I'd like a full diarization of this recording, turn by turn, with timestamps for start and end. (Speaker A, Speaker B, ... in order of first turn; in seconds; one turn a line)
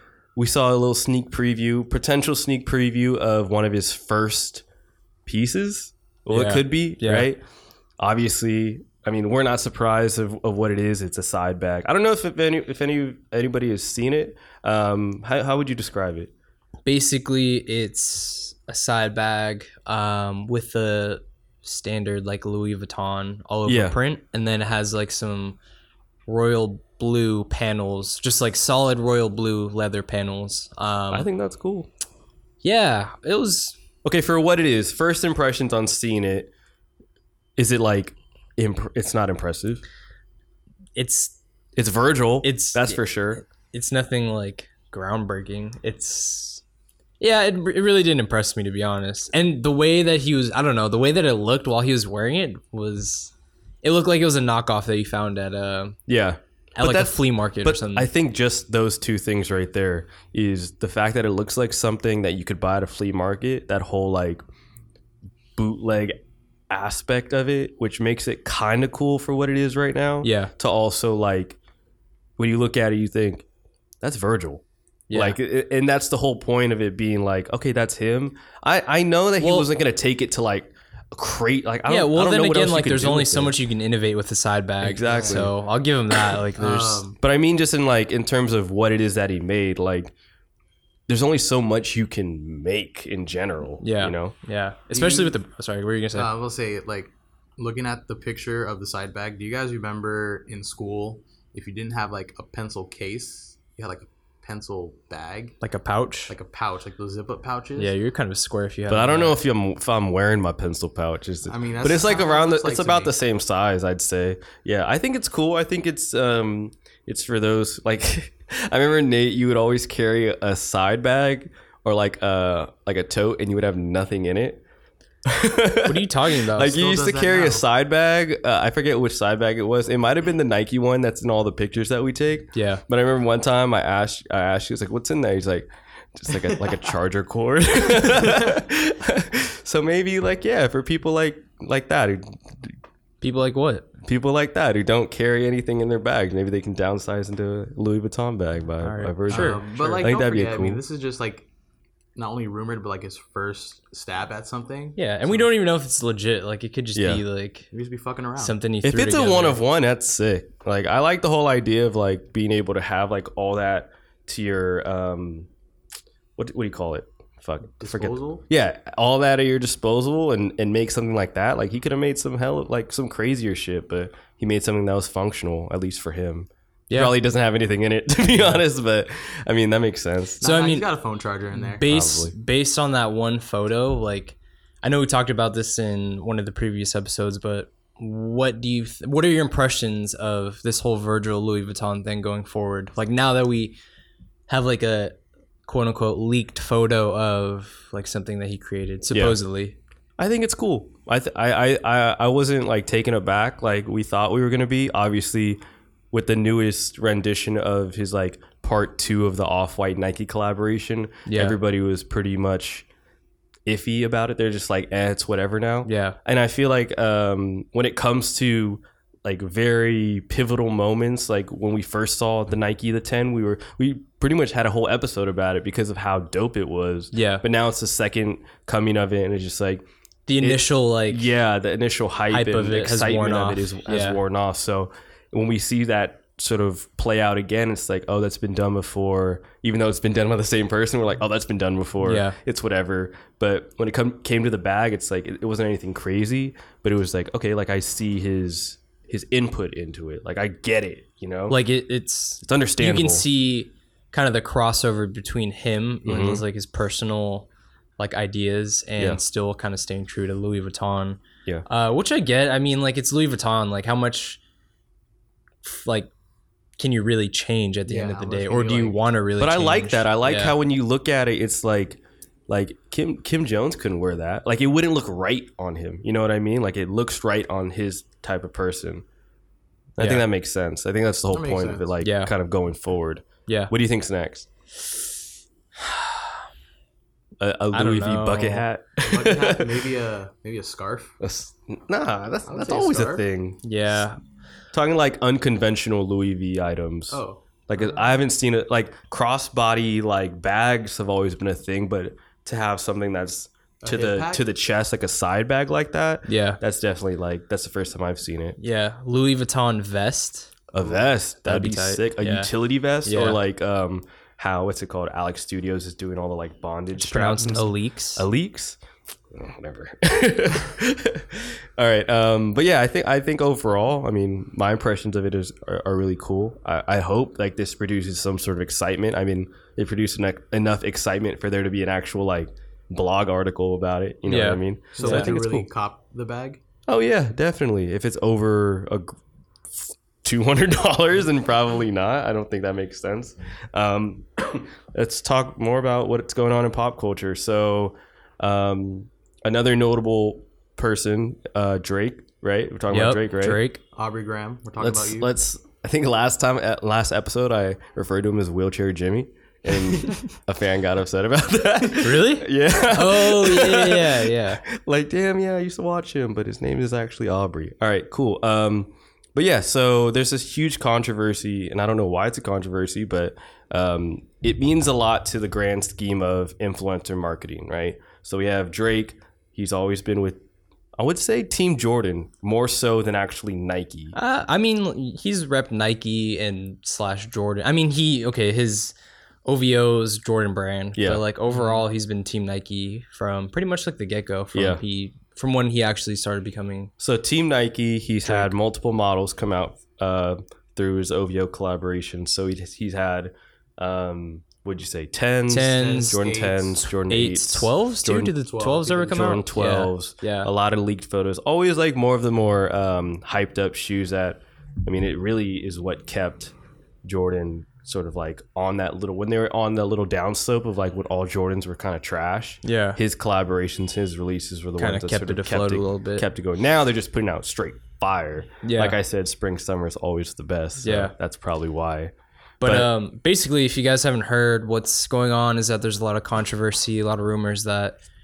Speaker A: 0.3-4.6
Speaker A: 5.2-7.4
Speaker B: 6.3-7.3
Speaker A: 8.0-16.3
Speaker B: 16.9-25.6
Speaker A: 23.6-24.0
Speaker B: 26.3-31.3
Speaker A: 31.1-31.9
Speaker B: 32.6-33.8
Speaker A: 34.0-36.5
Speaker A: 37.6-39.8
Speaker B: 41.0-41.4
Speaker A: 41.8-43.4
Speaker B: 42.4-46.6
Speaker B: 47.2-53.3
Speaker B: 53.8-56.0
Speaker A: 56.1-64.4
Speaker B: 56.8-58.1
Speaker A: 65.5-71.6
Speaker B: 70.2-70.5
Speaker A: 72.4-73.5
Speaker A: 74.0-83.6
Speaker B: 75.1-75.4
Speaker B: 79.4-79.7
Speaker B: 81.9-87.0
Speaker A: 84.8-85.5
Speaker C: 85.0-85.4
Speaker C: 86.6-87.2
Speaker A: 87.2-90.1
Speaker A: 91.1-94.3
Speaker B: 93.8-96.3
Speaker C: 94.9-95.3
Speaker C: 96.1-105.6
Speaker B: 105.6-106.3
Speaker C: 106.3-107.9
Speaker B: 107.8-109.3
Speaker A: 108.9-124.6
Speaker C: 111.5-113.1
Speaker A: 125.2-142.8
Speaker B: 125.8-126.8
Speaker C: 126.6-127.6
Speaker B: 132.5-132.8
Speaker B: 143.2-143.9
Speaker A: 144.0-150.8
Speaker B: 148.8-150.1
Speaker C: 149.3-151.5
Speaker C: 152.2-155.5
Speaker B: 154.9-157.7
Speaker A: 156.9-157.2
Speaker C: 157.7-158.6
Speaker B: 158.4-159.6
Speaker A: 158.8-165.5
Speaker A: 166.4-180.4
Speaker C: 167.8-168.4
Speaker B: 176.9-177.1
Speaker B: 180.4-180.9
Speaker C: 180.4-181.8
Speaker B: 181.6-193.8
Speaker A: 181.8-182.3
Speaker B: 194.5-199.8
Speaker A: 199.1-199.4
Speaker A: 200.2-205.6
Speaker A: 206.1-212.9
Speaker B: 211.2-211.6
Speaker A: 213.7-229.8
Speaker B: 215.8-216.2
Speaker B: 227.1-227.4
Speaker B: 230.3-231.3
Speaker A: 230.4-251.6
Speaker B: 232.3-234.2
Speaker B: 242.0-242.4
Speaker B: 251.5-257.5
Speaker A: 252.4-253.2
Speaker A: 256.0-256.4
Speaker B: 258.0-264.4
Speaker B: 265.6-266.1
Speaker B: 266.8-270.5
Speaker C: 267.9-269.0
Speaker A: 269.4-279.0
Speaker A: 280.0-284.5
Speaker B: 280.0-280.2
Speaker C: 281.3-281.9
Speaker B: 282.0-282.3
Speaker B: 283.5-283.7
Speaker B: 285.9-286.2
Speaker A: 287.4-289.8
Speaker B: 287.7-288.6
Speaker C: 289.0-291.1
Speaker A: 291.2-294.1
Speaker C: 292.4-293.2
Speaker B: 293.6-294.2
Speaker A: 294.7-308.6
Speaker C: 297.1-298.1
Speaker C: 303.8-304.4
Speaker B: 306.3-306.6
Speaker B: 308.6-310.6
Speaker A: 310.7-318.8
Speaker B: 311.4-312.5
Speaker B: 313.0-313.4
Speaker B: 316.9-318.2
Speaker A: 319.3-335.7
Speaker B: 334.3-335.3
Speaker C: 334.9-336.6
Speaker A: 336.9-339.2
Speaker A: 339.7-353.6
Speaker B: 352.9-353.8
Speaker C: 353.9-355.3
Speaker A: 354.8-380.4
Speaker B: 362.0-364.6
Speaker A: 381.0-384.1
Speaker B: 384.1-388.9
Speaker B: 389.4-396.9
Speaker A: 390.9-391.2
Speaker C: 391.5-391.8
Speaker A: 394.5-394.8
Speaker A: 397.0-408.4
Speaker B: 398.2-398.5
Speaker B: 405.5-406.2
Speaker C: 405.6-406.8
Speaker B: 406.9-410.5
Speaker C: 408.4-409.4
Speaker A: 409.1-416.5
Speaker A: 417.0-432.9
Speaker B: 422.6-423.0
Speaker B: 424.8-426.3
Speaker B: 428.6-429.0
Speaker B: 430.8-431.1
Speaker B: 432.6-438.0